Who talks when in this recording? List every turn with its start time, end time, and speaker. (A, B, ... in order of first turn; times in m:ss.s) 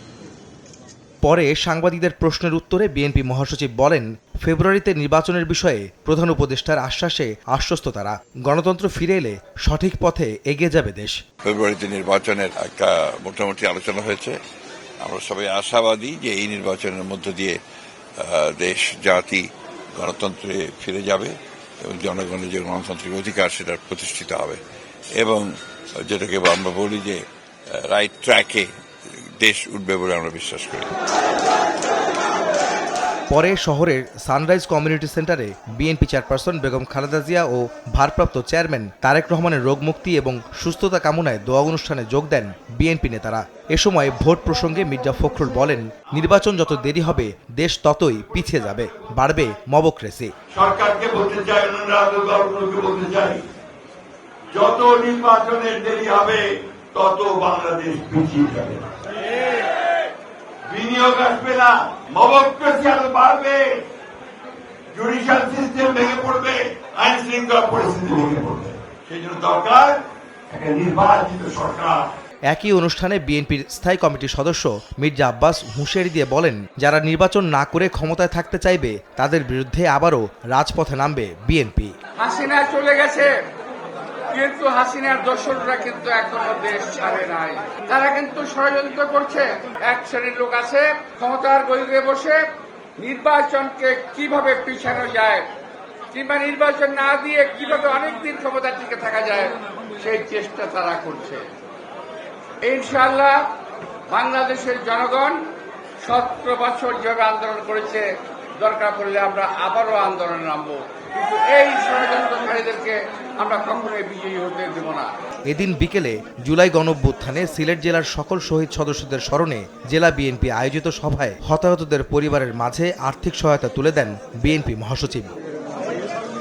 0:01.2-0:11.2 A
0:11.4-0:14.4 B
0:15.0-0:17.6 B
0:18.2-0:24.6 B
0:25.2-0:25.5 B
0:26.0-0:28.7 B
0:29.4-0:30.9 B
0:33.3-0:50.3 A
0:50.6-0:53.1 B
0:50.9-0:53.4 C
0:54.6-0:56.4 C
0:57.1-0:58.8 C
1:00.8-1:01.7 B
1:00.9-1:03.6 C
1:02.3-1:03.4 B
1:05.0-1:06.5 C
1:05.1-1:06.5 B
1:07.0-1:10.0 C
1:07.1-1:08.5 B
1:09.1-1:09.9 B
1:10.5-1:12.0 C
1:12.5-1:21.9 A
1:22.2-1:23.3 D
1:24.3-1:32.5 D
1:33.0-1:35.5 D
1:36.1-1:41.4 D
1:42.6-1:43.5 D
1:44.1-1:45.4 D
1:46.0-1:48.0 D
1:48.6-1:55.1 D
1:55.5-2:05.3 A